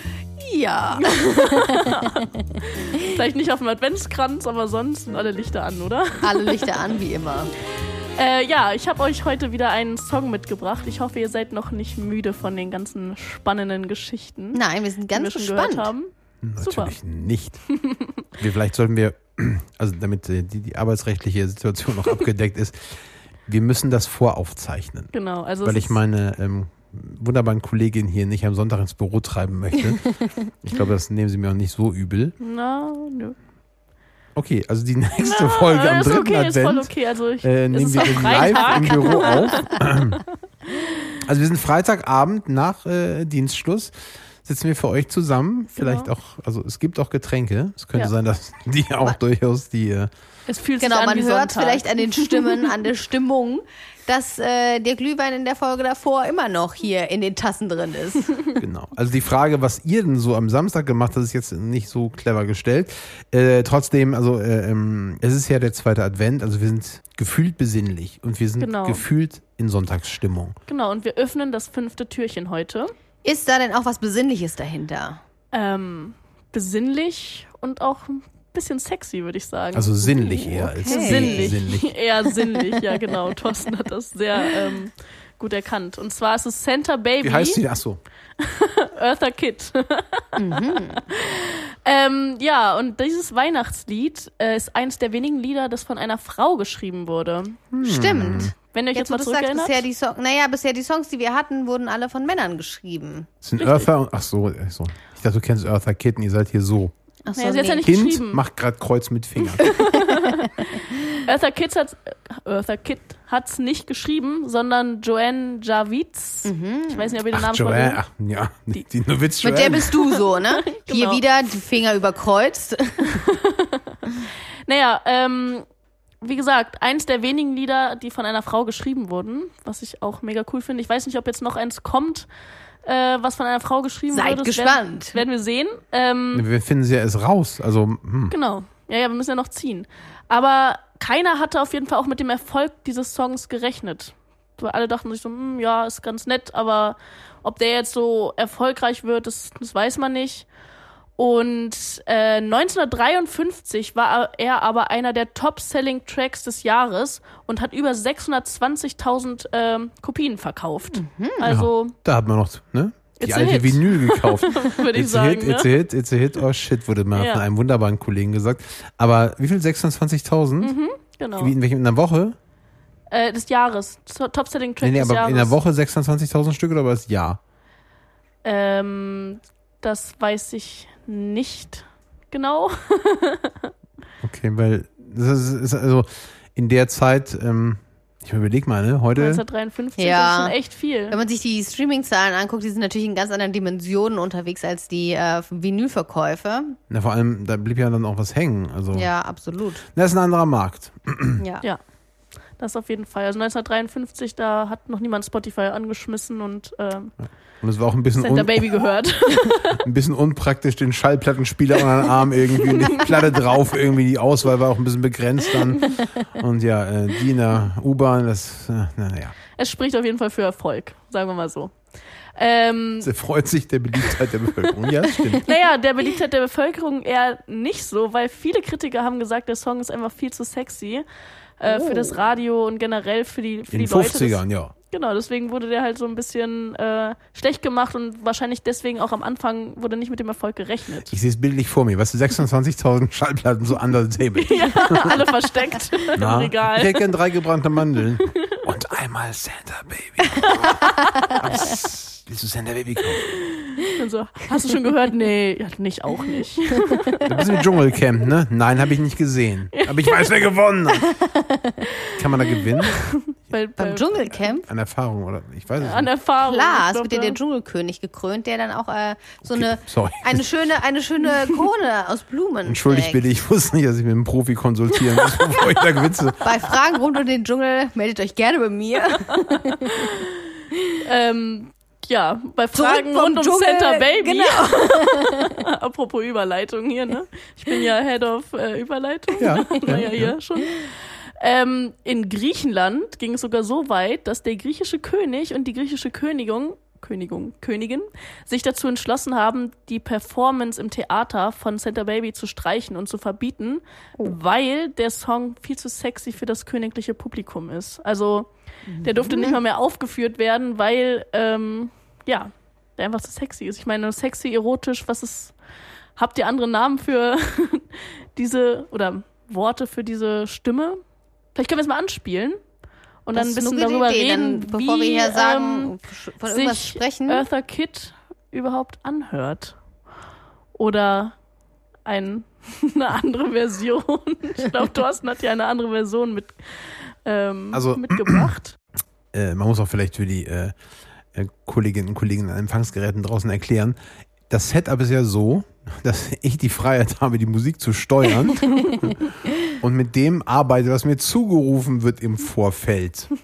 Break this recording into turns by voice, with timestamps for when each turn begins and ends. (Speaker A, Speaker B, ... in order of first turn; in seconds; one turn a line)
Speaker A: 0.4-2.0
Speaker B: 1.0-6.7
Speaker A: 6.2-7.5
Speaker B: 8.2-17.0
Speaker A: 14.5-15.9
Speaker C: 16.4-17.6
Speaker B: 17.7-18.1
Speaker C: 18.4-25.1
Speaker B: 25.1-26.0
Speaker C: 25.6-32.3
Speaker B: 32.4-33.4
Speaker C: 34.3-36.9
Speaker B: 35.2-40.2
Speaker C: 37.4-40.2
Speaker A: 38.4-39.5
Speaker C: 41.2-50.1
Speaker B: 45.8-46.1
Speaker B: 50.5-52.7
Speaker A: 50.8-58.4
Speaker C: 58.6-70.5
Speaker B: 68.6-69.0
Speaker B: 70.7-72.9
Speaker A: 73.2-75.2
Speaker B: 75.5-87.6
Speaker C: 79.7-82.0
Speaker A: 80.4-81.5
Speaker C: 87.2-88.0
Speaker B: 88.4-97.6
Speaker A: 90.4-91.0
Speaker C: 97.7-98.5
Speaker A: 97.8-103.3
Speaker B: 98.7-99.8
Speaker C: 103.4-106.9
Speaker A: 107.2-107.8
Speaker B: 107.3-108.4
Speaker C: 107.8-109.7
Speaker B: 109.6-118.0
Speaker A: 109.7-110.4
Speaker A: 116.4-117.2
Speaker C: 117.3-120.0
Speaker A: 119.4-123.2
Speaker B: 120.5-121.2
Speaker B: 123.0-125.7
Speaker B: 126.2-132.3
Speaker B: 132.8-136.4
Speaker A: 134.1-135.2
Speaker C: 136.3-138.3
Speaker B: 138.3-150.5
Speaker B: 151.2-161.9
Speaker A: 160.9-161.5
Speaker C: 161.4-170.7
Speaker B: 163.2-165.7
Speaker B: 167.1-167.4
Speaker B: 170.6-171.6
Speaker C: 171.4-172.3
Speaker B: 173.1-175.6
Speaker C: 174.8-177.4
Speaker B: 178.4-183.7
Speaker C: 184.2-189.4
Speaker B: 189.1-191.2
Speaker A: 190.0-190.6
Speaker A: 191.1-196.8
Speaker C: 196.9-199.1
Speaker A: 198.9-199.8
Speaker C: 199.9-201.4
Speaker A: 201.4-201.7
Speaker B: 202.6-207.1
Speaker C: 207.6-208.7
Speaker B: 208.2-209.8
Speaker C: 209.8-219.3
Speaker B: 212.8-213.1
Speaker B: 219.6-221.7
Speaker B: 222.3-223.1
Speaker C: 223.0-225.5
Speaker B: 225.3-231.0
Speaker B: 231.6-241.2
Speaker A: 231.6-232.1
Speaker C: 233.7-234.7
Speaker C: 241.1-245.3
Speaker B: 244.4-247.0
Speaker C: 246.2-253.3
Speaker B: 253.3-257.6
Speaker C: 257.2-261.2
Speaker B: 259.7-260.3
Speaker A: 261.0-261.8
Speaker B: 262.1-264.4
Speaker C: 262.1-263.0
Speaker A: 263.8-264.6
Speaker C: 264.6-266.1
Speaker B: 265.8-267.4
Speaker A: 266.4-273.2
Speaker C: 269.4-270.5
Speaker C: 272.6-276.5
Speaker B: 275.3-275.6
Speaker A: 276.4-280.0
Speaker B: 279.1-280.3
Speaker B: 281.0-308.5
Speaker A: 282.7-285.5
Speaker C: 289.4-290.4
Speaker A: 308.9-309.6
Speaker B: 309.0-315.5
Speaker B: 316.2-321.0
Speaker B: 321.5-322.6
Speaker B: 323.2-325.9
Speaker A: 323.3-327.5
Speaker B: 326.4-329.8
Speaker B: 330.7-331.4
Speaker B: 332.1-338.8
Speaker C: 337.7-338.5
Speaker C: 339.3-340.7
Speaker C: 341.3-344.0
Speaker C: 344.5-353.3